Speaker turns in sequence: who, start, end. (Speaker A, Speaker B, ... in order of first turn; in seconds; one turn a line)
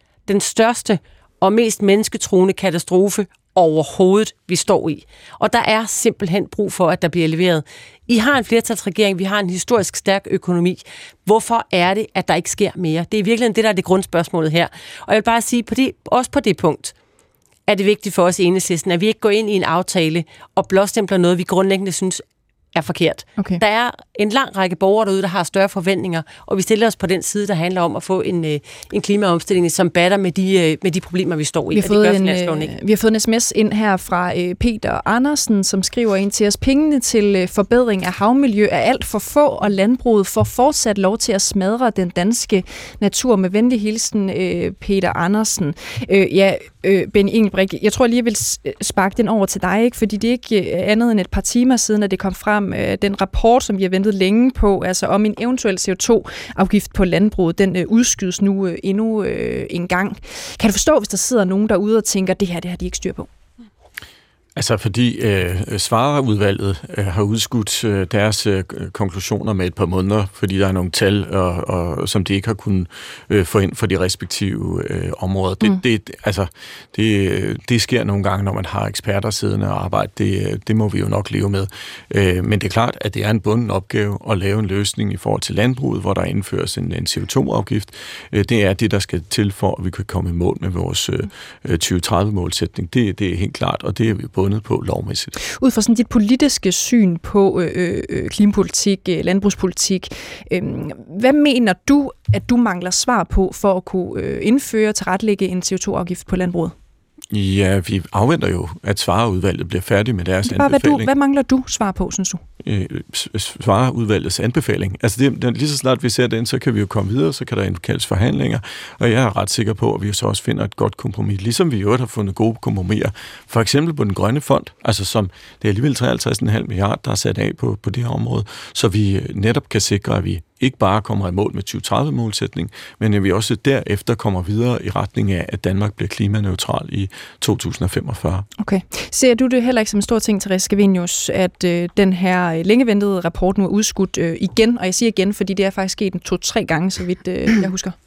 Speaker A: 0.3-16.9
Speaker A: 17.7-22.2
Speaker A: 22.7-32.7
Speaker B: 31.7-63.3
Speaker C: 64.5-95.4
Speaker B: 95.6-106.7
Speaker C: 107.3-111.1
Speaker B: 110.5-112.4
Speaker C: 112.6-138.5
Speaker B: 138.6-147.9